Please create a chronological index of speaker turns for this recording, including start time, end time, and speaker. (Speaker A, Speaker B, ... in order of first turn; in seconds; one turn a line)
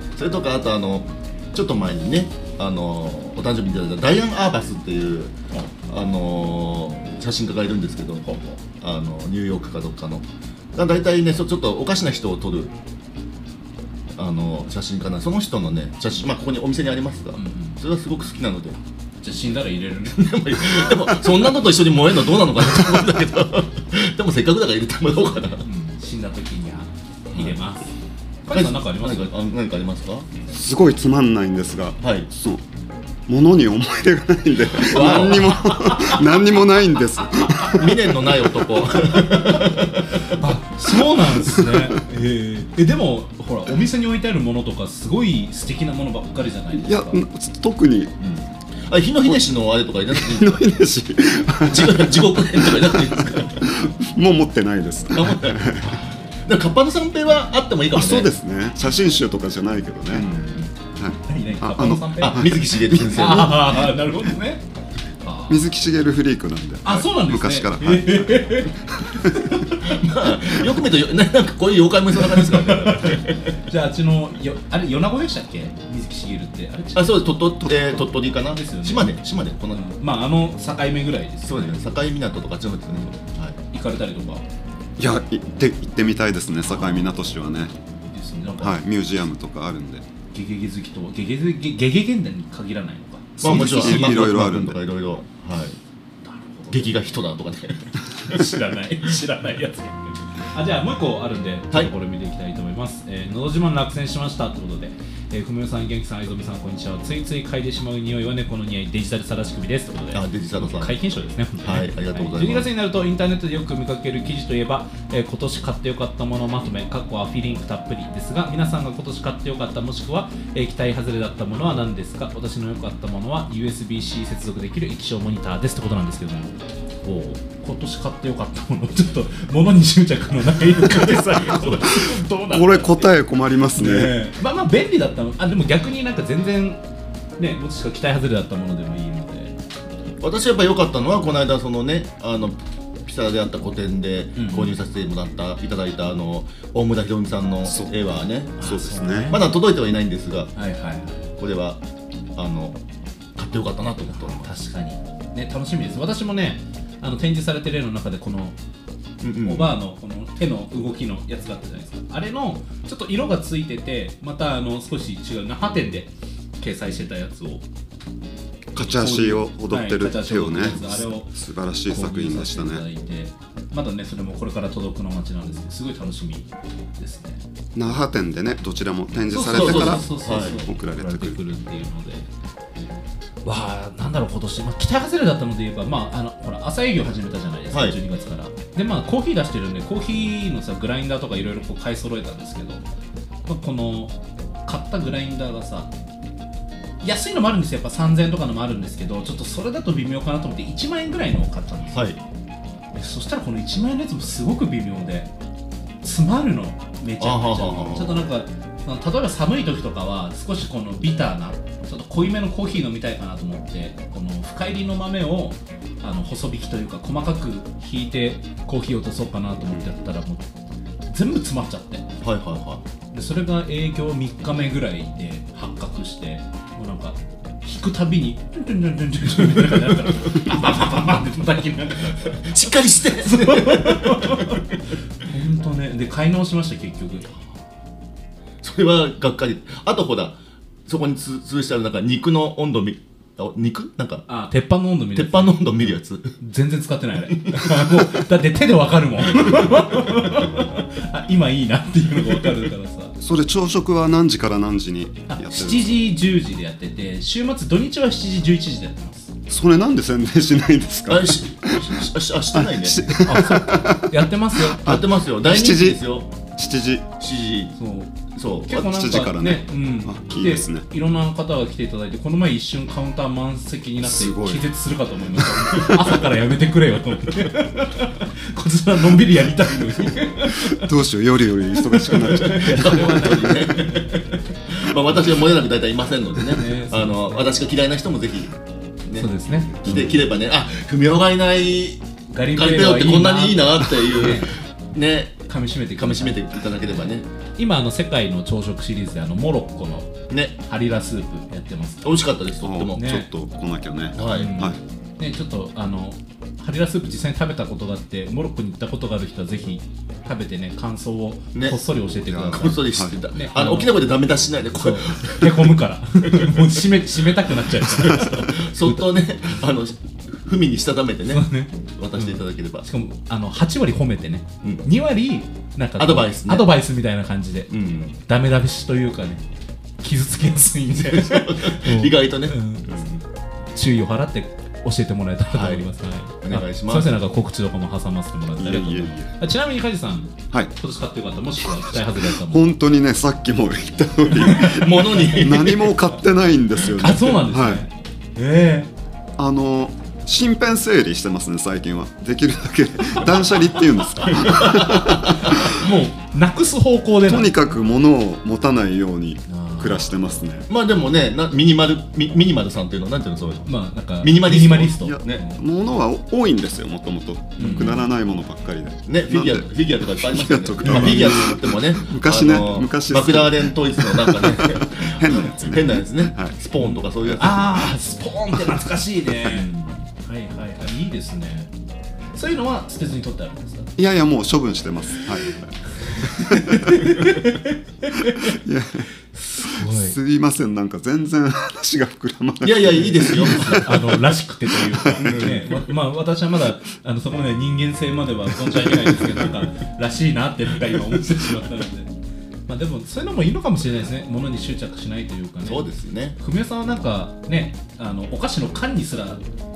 Speaker A: 0.1-12.7
Speaker B: 8.3-8.5
Speaker A: 14.2-18.8
Speaker B: 17.4-17.8
Speaker B: 19.2-20.3
Speaker A: 20.1-25.6
Speaker B: 25.6-27.9
Speaker A: 27.3-27.6
Speaker B: 28.4-29.3
Speaker A: 28.5-30.3
Speaker C: 30.5-32.6
Speaker A: 32.0-32.3
Speaker C: 33.3-38.1
Speaker A: 34.8-35.6
Speaker B: 34.9-36.4
Speaker B: 37.4-37.8
Speaker A: 37.6-40.2
Speaker B: 39.1-47.2
Speaker C: 41.4-41.9
Speaker C: 46.7-48.1
Speaker A: 48.9-50.6
Speaker C: 50.1-56.0
Speaker A: 51.6-53.8
Speaker A: 55.1-58.3
Speaker C: 57.9-60.3
Speaker A: 60.1-60.7
Speaker C: 61.0-63.4
Speaker B: 61.2-64.6
Speaker A: 62.2-63.9
Speaker B: 65.2-65.6
Speaker C: 65.5-69.4
Speaker B: 66.8-69.9
Speaker A: 69.8-73.4
Speaker B: 72.2-79.1
Speaker A: 76.9-79.8
Speaker B: 79.7-81.8
Speaker A: 81.5-83.6
Speaker B: 83.7-84.5
Speaker C: 85.0-87.7
Speaker B: 86.6-87.1
Speaker B: 88.1-88.8
Speaker C: 88.6-90.1
Speaker B: 90.3-94.2
Speaker A: 93.4-95.8
Speaker C: 93.4-94.8
Speaker B: 96.2-97.0
Speaker A: 96.7-98.4
Speaker B: 98.2-126.5
Speaker A: 110.1-111.0
Speaker A: 111.6-112.7
Speaker B: 127.0-133.1
Speaker C: 132.5-134.1
Speaker B: 133.7-136.8
Speaker B: 137.4-139.6
Speaker A: 140.2-148.6
Speaker B: 144.3-144.7
Speaker C: 147.6-147.9
Speaker B: 148.6-149.5
Speaker C: 148.6-149.3
Speaker A: 149.3-150.5
Speaker B: 150.6-151.2
Speaker A: 151.4-151.8
Speaker A: 152.3-152.8
Speaker A: 153.3-154.5
Speaker B: 154.1-158.6
Speaker A: 159.2-159.7
Speaker B: 159.4-167.6
Speaker B: 168.7-171.3
Speaker C: 168.7-172.8
Speaker B: 171.8-177.4
Speaker C: 177.7-181.4
Speaker B: 179.3-182.2
Speaker A: 179.5-180.6
Speaker B: 183.4-192.8
Speaker A: 187.7-188.0
Speaker B: 193.4-195.9
Speaker B: 197.0-202.1
Speaker A: 201.9-202.2
Speaker B: 202.9-205.3
Speaker B: 206.0-220.4
Speaker A: 207.2-208.2
Speaker B: 221.1-222.1
Speaker A: 222.2-222.8
Speaker B: 223.1-232.5
Speaker A: 232.3-234.6
Speaker B: 233.2-237.3
Speaker A: 238.6-240.3
Speaker A: 240.9-244.2
Speaker B: 244.3-253.2
Speaker A: 245.1-246.3
Speaker A: 247.3-248.1
Speaker C: 253.2-255.9
Speaker B: 255.3-259.3
Speaker C: 259.5-262.0
Speaker A: 261.1-263.1
Speaker C: 262.5-264.1
Speaker B: 263.2-264.9
Speaker C: 264.7-267.1
Speaker A: 264.8-266.3
Speaker A: 267.2-267.8
Speaker B: 267.8-268.1
Speaker A: 268.3-268.9
Speaker B: 268.7-280.9
Speaker C: 268.7-270.9
Speaker C: 274.0-274.7
Speaker C: 275.4-276.2
Speaker C: 280.5-283.0
Speaker B: 281.8-284.4
Speaker A: 282.4-288.5
Speaker B: 286.5-287.4
Speaker A: 289.1-292.0
Speaker B: 289.1-290.2
Speaker B: 292.3-294.6
Speaker A: 292.5-295.4
Speaker B: 295.5-302.1
Speaker A: 296.0-297.3
Speaker A: 300.3-300.6
Speaker A: 302.0-303.1
Speaker C: 302.6-304.8
Speaker B: 302.9-303.3
Speaker A: 304.1-304.6
Speaker B: 304.3-314.0
Speaker A: 311.5-315.7
Speaker C: 312.3-313.1
Speaker B: 314.7-319.0
Speaker A: 316.3-316.8
Speaker A: 317.8-322.8
Speaker B: 321.3-327.7
Speaker A: 326.0-326.6
Speaker A: 327.7-328.2
Speaker B: 328.2-329.4
Speaker B: 330.0-333.0
Speaker A: 331.0-333.2
Speaker B: 333.7-342.6
Speaker A: 335.5-335.9
Speaker A: 336.4-337.1
Speaker C: 338.6-339.3
Speaker C: 342.1-347.8
Speaker B: 344.4-345.1
Speaker A: 344.5-346.0
Speaker B: 347.0-348.9
Speaker C: 349.4-355.6
Speaker A: 354.4-355.2
Speaker B: 354.5-357.7
Speaker C: 357.2-360.7
Speaker B: 359.5-360.4
Speaker A: 360.7-365.4
Speaker B: 363.6-365.6
Speaker C: 365.0-376.5
Speaker B: 367.6-368.1
Speaker A: 369.1-377.9
Speaker B: 376.8-381.7
Speaker A: 379.5-380.0
Speaker B: 382.3-383.9
Speaker C: 384.0-385.7
Speaker B: 385.2-388.6
Speaker C: 386.3-387.1
Speaker C: 388.3-389.1
Speaker B: 389.3-390.1
Speaker C: 389.6-395.7
Speaker A: 392.6-394.0
Speaker B: 393.3-402.1
Speaker A: 395.2-395.6
Speaker B: 402.7-405.9
Speaker A: 405.6-406.4
Speaker B: 406.4-409.4